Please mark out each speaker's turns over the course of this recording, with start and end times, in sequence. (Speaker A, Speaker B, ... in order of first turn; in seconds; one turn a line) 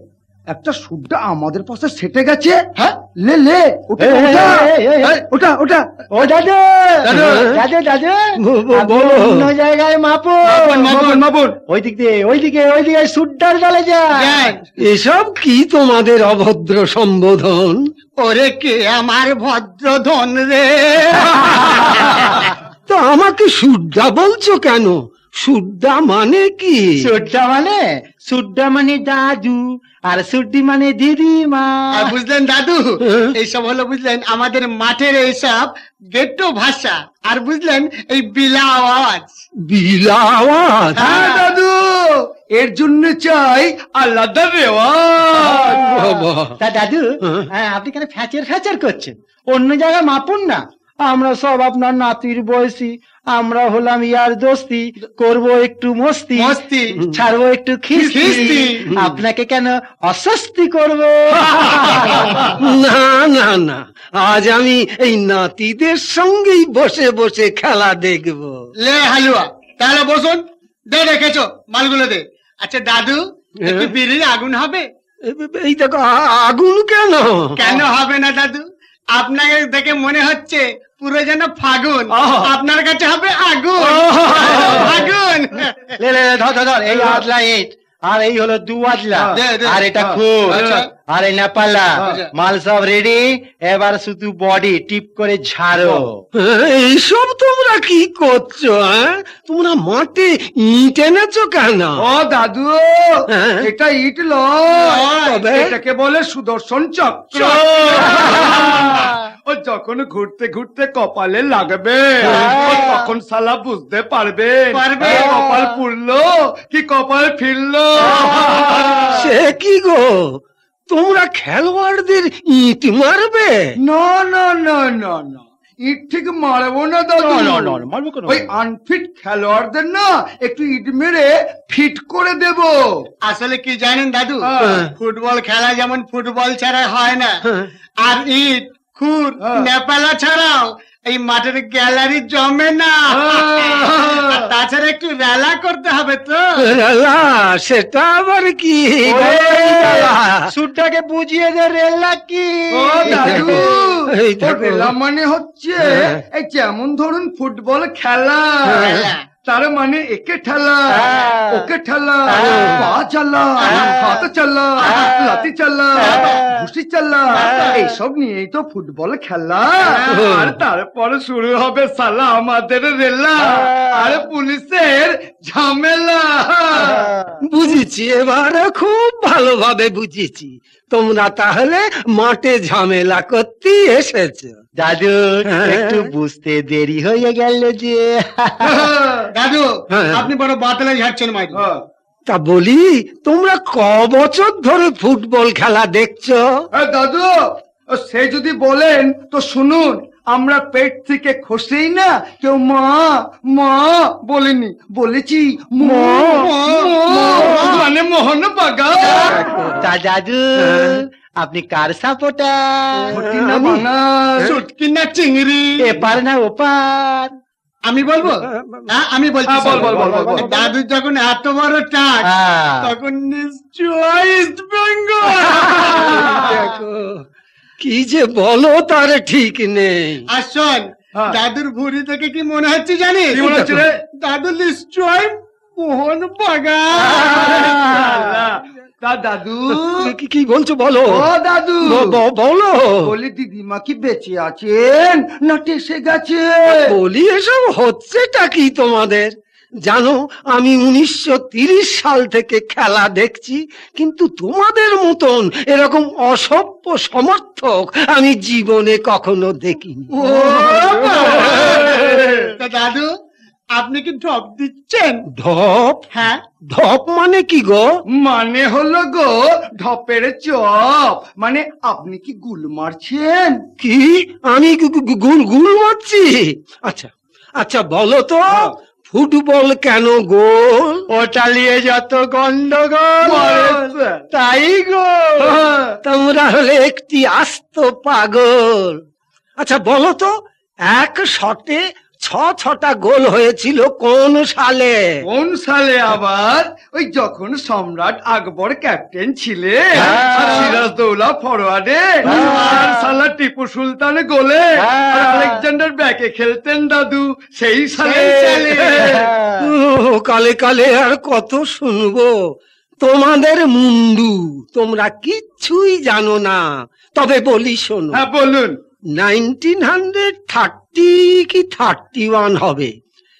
Speaker A: 0.5-2.6
Speaker A: 3.2-5.8
Speaker B: 4.0-5.2
Speaker B: 6.1-8.2
Speaker C: 7.0-7.4
Speaker D: 7.1-7.6
Speaker D: 8.4-9.5
Speaker B: 8.7-10.9
Speaker C: 10.5-11.2
Speaker A: 10.7-11.5
Speaker B: 11.7-14.3
Speaker C: 14.2-14.6
Speaker D: 14.8-17.8
Speaker C: 18.2-22.5
Speaker D: 22.9-26.9
Speaker B: 27.0-32.1
Speaker C: 31.9-39.3
Speaker D: 39.7-41.2
Speaker C: 41.0-41.5
Speaker A: 41.0-45.8
Speaker B: 45.4-62.3
Speaker D: 45.7-46.6
Speaker C: 56.4-57.0
Speaker A: 57.9-58.6
Speaker C: 58.0-58.8
Speaker A: 61.4-62.5
Speaker D: 62.5-68.5
Speaker C: 68.8-74.8
Speaker D: 73.6-73.9
Speaker D: 75.2-77.7
Speaker C: 77.5-78.6
Speaker C: 79.1-86.0
Speaker A: 82.1-82.5
Speaker A: 83.8-85.1
Speaker B: 86.0-96.2
Speaker A: 86.9-87.2
Speaker C: 89.3-89.8
Speaker A: 90.0-90.8
Speaker C: 90.5-90.9
Speaker C: 92.0-92.3
Speaker D: 96.3-102.0
Speaker A: 102.0-105.0
Speaker D: 103.3-103.6
Speaker C: 104.8-105.4
Speaker D: 105.2-105.7
Speaker A: 105.5-119.3
Speaker C: 108.0-109.1
Speaker B: 112.2-112.9
Speaker C: 112.3-113.0
Speaker C: 114.7-115.5
Speaker B: 118.0-118.8
Speaker D: 119.1-120.2
Speaker D: 120.9-123.6
Speaker A: 123.8-132.8
Speaker B: 127.2-128.4
Speaker C: 133.2-137.4
Speaker A: 134.4-134.8
Speaker D: 134.6-134.9
Speaker C: 138.0-146.7
Speaker A: 143.1-144.4
Speaker D: 146.6-150.4
Speaker B: 149.0-153.7
Speaker A: 152.7-158.9
Speaker D: 153.1-154.9
Speaker D: 155.9-156.2
Speaker D: 158.7-159.0
Speaker C: 158.7-159.2
Speaker A: 159.4-177.0
Speaker B: 160.9-161.7
Speaker B: 162.3-162.7
Speaker C: 163.6-164.2
Speaker B: 166.0-166.4
Speaker C: 167.3-167.8
Speaker D: 170.1-170.6
Speaker B: 176.7-177.4
Speaker D: 177.5-184.5
Speaker B: 184.8-188.8
Speaker D: 185.5-186.1
Speaker A: 188.6-189.2
Speaker C: 189.3-191.6
Speaker D: 189.9-190.3
Speaker A: 191.6-191.8
Speaker D: 192.3-196.4
Speaker A: 196.7-197.3
Speaker A: 197.9-209.3
Speaker B: 205.8-206.5
Speaker C: 206.3-207.8
Speaker B: 207.2-207.8
Speaker D: 209.0-209.9
Speaker B: 209.2-213.1
Speaker D: 210.6-211.0
Speaker D: 212.9-213.8
Speaker A: 213.1-214.6
Speaker C: 214.4-215.8
Speaker B: 215.8-217.3
Speaker C: 217.9-222.2
Speaker D: 218.2-218.9
Speaker A: 219.5-220.5
Speaker B: 219.7-220.2
Speaker D: 220.1-220.5
Speaker B: 222.3-222.9
Speaker C: 222.8-226.8
Speaker D: 225.3-227.2
Speaker D: 227.8-230.2
Speaker C: 230.3-233.6
Speaker A: 233.3-233.9
Speaker C: 234.2-237.7
Speaker A: 237.0-240.1
Speaker D: 239.8-241.2
Speaker A: 241.1-242.2
Speaker D: 241.8-243.0
Speaker A: 243.0-246.9
Speaker D: 246.7-249.3
Speaker D: 249.8-262.0
Speaker A: 260.2-262.5
Speaker C: 260.2-262.1
Speaker C: 262.6-263.1
Speaker C: 263.7-265.2
Speaker D: 265.4-266.1
Speaker C: 266.1-266.4
Speaker D: 266.7-267.9
Speaker A: 268.1-273.6
Speaker D: 273.8-281.0
Speaker B: 281.1-285.6
Speaker A: 283.2-284.2
Speaker A: 285.4-285.9
Speaker D: 286.0-289.0
Speaker D: 289.6-290.3
Speaker D: 290.9-295.2
Speaker A: 295.2-309.2
Speaker B: 300.0-300.8
Speaker B: 302.2-303.1
Speaker C: 302.3-302.6
Speaker B: 304.8-305.6
Speaker C: 308.0-308.9
Speaker D: 308.8-312.3
Speaker B: 309.0-309.7
Speaker D: 313.0-316.6
Speaker D: 317.1-318.2
Speaker A: 318.1-318.8
Speaker D: 319.1-322.9